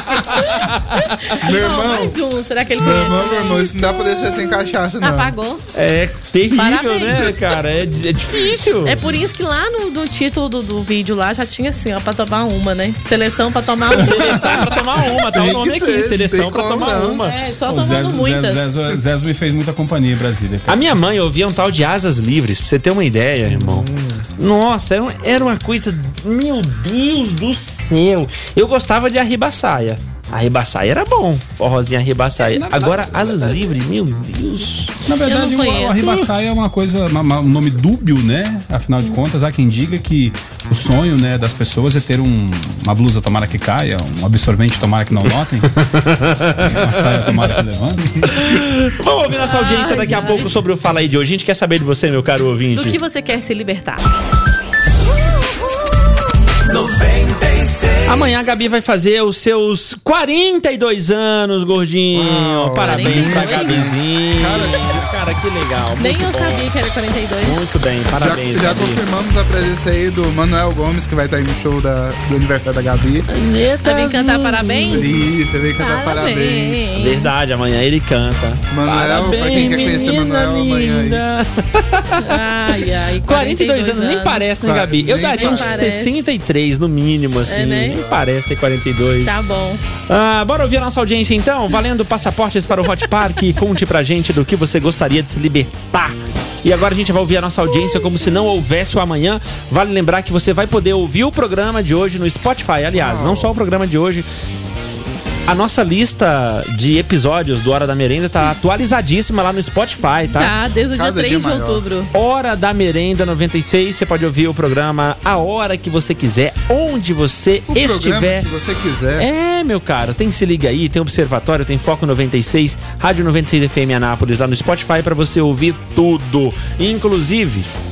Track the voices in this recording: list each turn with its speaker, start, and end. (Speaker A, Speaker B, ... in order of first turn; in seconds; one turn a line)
Speaker A: 0.4-4.4
Speaker B: 1.4-2.2
Speaker B: 2.8-5.3
Speaker A: 5.0-5.6
Speaker C: 5.7-9.0
Speaker A: 6.5-7.3
Speaker A: 8.8-14.6
Speaker C: 13.9-17.4
Speaker B: 14.2-17.2
Speaker A: 17.2-18.8
Speaker D: 17.7-20.9
Speaker C: 20.7-35.0
Speaker B: 23.5-24.2
Speaker D: 32.4-33.6
Speaker D: 35.1-45.7
Speaker A: 35.2-36.1
Speaker C: 46.0-47.5
Speaker D: 46.7-48.4
Speaker C: 48.2-53.0
Speaker A: 49.4-50.5
Speaker A: 52.7-54.0
Speaker C: 58.0-66.7
Speaker B: 62.1-65.0
Speaker A: 62.8-63.8
Speaker A: 66.0-67.5
Speaker C: 67.4-69.0
Speaker B: 68.2-73.3
Speaker C: 73.3-75.1
Speaker A: 73.8-75.1
Speaker B: 74.9-76.8
Speaker A: 75.8-77.3
Speaker C: 77.0-82.4
Speaker B: 78.7-81.2
Speaker A: 82.2-84.5
Speaker C: 83.2-89.3
Speaker B: 84.6-85.9
Speaker A: 85.3-86.1
Speaker A: 87.5-88.0
Speaker A: 89.2-89.8
Speaker C: 90.1-104.2
Speaker B: 102.9-103.5
Speaker C: 105.5-110.5
Speaker A: 110.3-112.1
Speaker B: 110.9-111.8
Speaker C: 112.1-118.5
Speaker B: 117.7-119.3
Speaker C: 119.2-127.7